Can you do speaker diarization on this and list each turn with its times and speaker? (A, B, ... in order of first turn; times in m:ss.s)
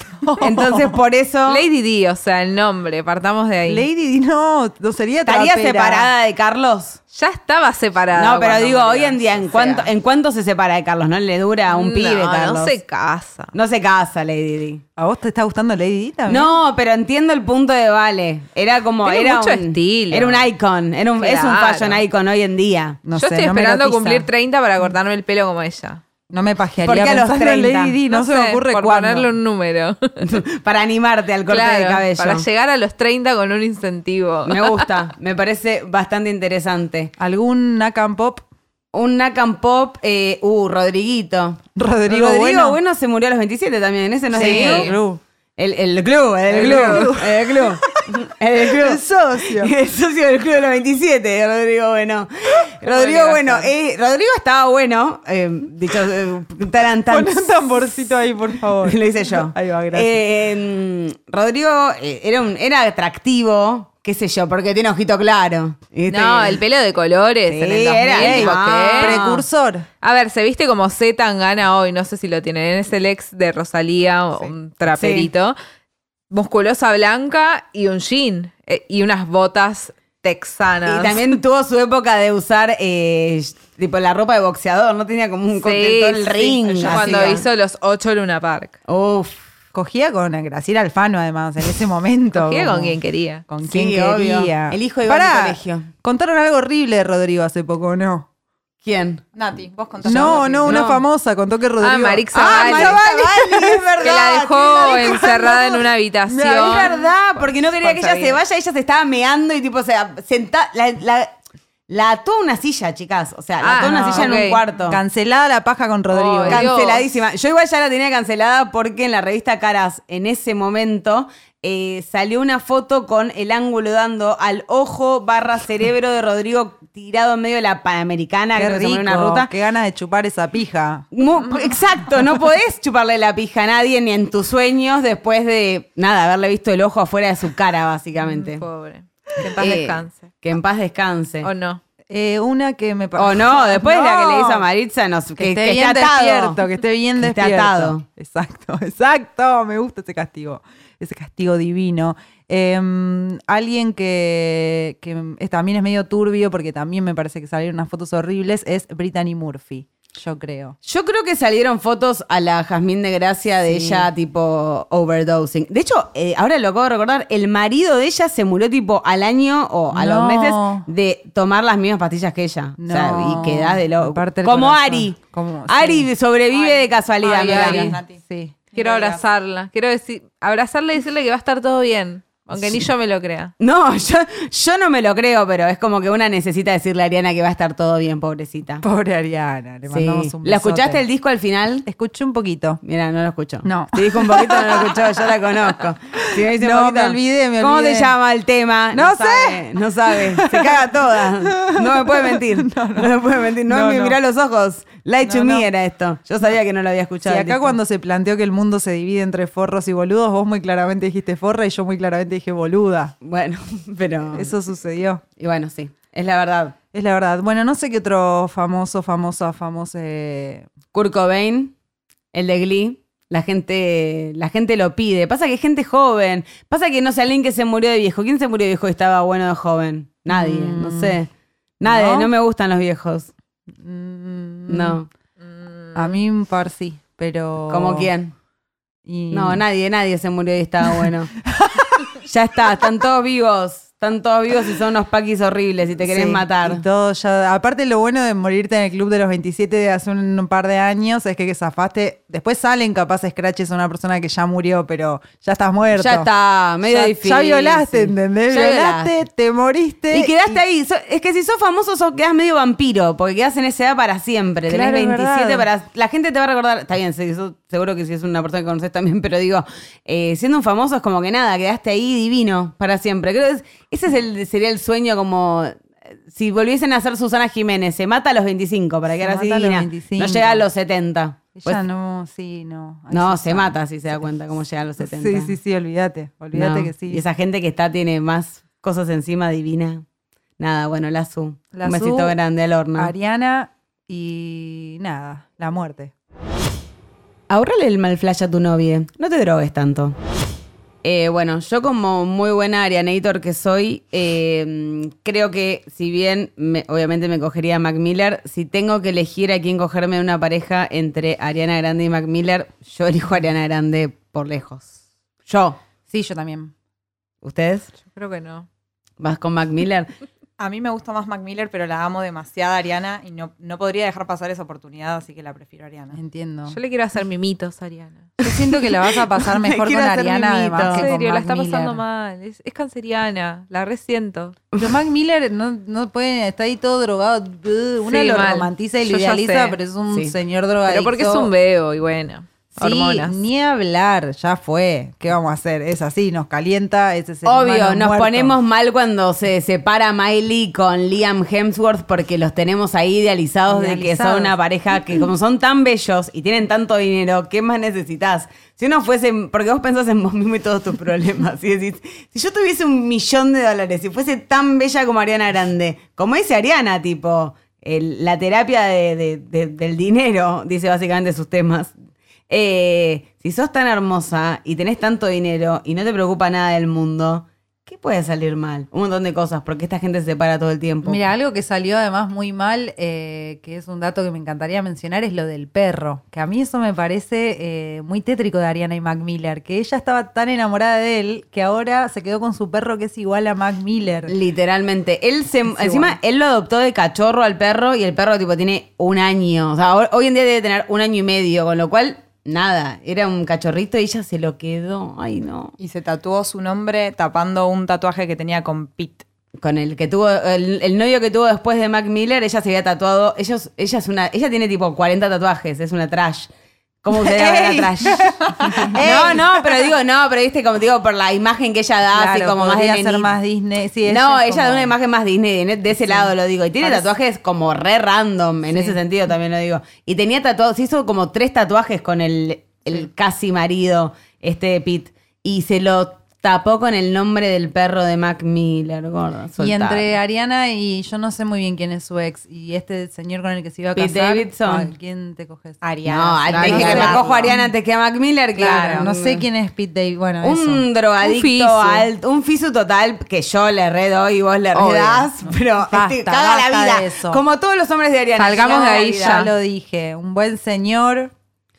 0:00.2-0:01.0 A
0:00.4-0:01.6 B
0:01.5-0:03.9 C
0:03.6-0:06.1 A
0:05.2-0:07.0 B
0:07.1-0:09.8 C
0:08.1-0:12.8 B
0:11.7-0:13.5 C
0:13.5-0:14.8 B
0:15.0-0:16.6 A
0:16.3-0:23.0 B
0:19.0-0:20.5 C
0:21.2-0:22.0 C
0:23.0-0:24.3 A
0:23.2-0:26.0 C
0:26.3-0:29.3 A
0:26.8-0:28.0 B
0:28.1-0:30.2 C
0:30.2-0:32.4 B
0:31.5-0:34.9 C
0:34.4-0:37.1 B
0:37.2-0:38.4 A
0:38.9-0:45.0 B
0:41.7-0:42.8 A
0:44.3-0:45.2 A
0:44.3-0:45.0 C
0:45.6-0:57.6 B
0:46.5-0:48.0 A
0:46.5-0:47.1 C
0:48.7-0:49.7 A
0:52.8-0:53.7 A
0:57.1-1:00.2 A
0:58.8-1:06.6 B
1:06.1-1:09.2 C
1:07.4-1:09.4 B
1:08.1-1:09.9 A
1:10.0-1:15.5 C
1:14.9-1:15.3 B
1:16.3-1:21.3 C
1:20.8-1:27.5 B
1:25.6-1:28.7 C
1:26.6-1:27.4 A
1:28.9-1:29.4 B
1:29.7-1:38.3 A
1:32.3-1:33.4 C
1:33.6-1:35.9 B
1:38.8-1:39.2 B
1:39.3-1:40.8 D
1:40.0-1:43.1 A
1:40.0-1:41.0 B
1:41.8-1:47.0 C
1:42.3-1:45.4 B
1:44.8-1:47.1 A
1:46.4-1:51.3 B
1:47.7-1:48.4 C
1:51.9-1:55.0 B
1:53.6-1:54.6 C
1:53.8-1:56.7 A
1:56.1-1:57.1 C
1:56.5-2:09.5 B
2:08.5-2:11.1 A
2:11.1-2:18.6 B
2:18.2-2:20.3 C
2:19.6-2:21.5 B
2:21.4-2:21.8 C
2:22.1-2:24.6 A
2:23.2-2:26.6 B
2:25.4-2:40.8 A
2:27.2-2:28.0 B
2:40.8-2:57.9 B
2:43.6-2:44.1 A
2:49.9-2:50.9 A
2:52.8-2:56.1 A
2:56.5-2:58.2 D
2:57.3-2:57.9 C
2:57.4-2:58.6 A
2:58.7-2:59.2 D
2:58.7-3:03.5 C
3:03.6-3:08.8 B
3:08.8-3:11.0 A
3:09.9-3:11.9 B
3:11.8-3:12.8 A
3:12.8-3:27.8 B
3:13.6-3:18.1 A
3:18.9-3:24.2 A
3:25.2-3:25.7 A
3:27.2-3:33.1 A
3:33.2-3:34.5 B
3:34.3-3:35.2 A
3:35.4-3:36.8 B
3:36.9-3:40.7 A
3:40.9-3:41.7 B
3:42.3-3:51.3 B
3:50.3-3:51.2 A
3:51.8-3:53.3 B
3:51.8-3:52.3 A
3:53.8-3:55.0 A
3:54.7-3:55.1 B
3:55.9-3:58.1 A
3:57.7-3:58.3 B
3:59.0-3:59.6 A
3:59.3-4:01.3 B
4:00.8-4:02.1 A
4:02.2-4:06.8 B
4:06.0-4:16.3 A
4:15.9-4:19.2 B
4:16.8-4:20.6 A
4:20.1-4:41.8 B
4:24.7-4:25.7 A
4:39.2-4:40.6 A
4:41.5-4:44.2 A
4:43.1-4:45.6 B
4:45.0-4:47.2 A
4:46.5-4:50.0 B
4:50.6-4:53.1 B
4:51.7-4:52.4 A
4:53.0-4:56.1 A
4:57.5-5:00.2 B
5:01.0-5:14.9 B
5:15.4-5:15.8 B
5:16.1-5:16.7 A
5:17.4-5:17.9 B
5:18.1-5:18.7 C
5:19.2-5:20.1 B
5:20.6-5:26.2 D
5:26.1-5:26.8 A
5:26.7-5:28.3 C
5:28.4-5:32.0 A
5:29.4-5:31.1 B
5:30.9-5:34.6 C
5:34.7-5:35.0 B
5:34.8-5:41.5 A
5:38.0-5:39.8 C
5:40.9-5:43.4 C
5:42.8-5:48.6 A
5:47.4-6:11.9 B
5:53.7-5:54.5 A
6:12.5-6:21.2 B
6:21.0-6:34.3 A
6:34.3-6:45.7 B
6:35.7-6:36.1 A
6:45.8-6:49.2 D
6:49.6-6:56.5 B
6:57.0-6:58.4 B
6:57.1-6:59.9 A
6:58.7-6:58.9 D
6:58.9-7:03.3 B
7:02.1-7:04.9 A
7:04.0-7:20.1 B
7:06.0-7:06.3 A
7:06.8-7:07.1 A
7:08.7-7:09.0 A
7:19.6-7:25.8 A
7:24.0-7:24.9 B
7:25.8-7:27.5 D
7:26.0-7:29.4 B
7:26.5-7:27.7 A
7:28.6-7:30.8 A
7:30.4-7:39.5 B
7:31.2-7:32.1 C
7:34.7-7:35.3 C
7:35.9-7:37.4 A
7:38.4-7:39.5 C
7:38.6-7:41.3 A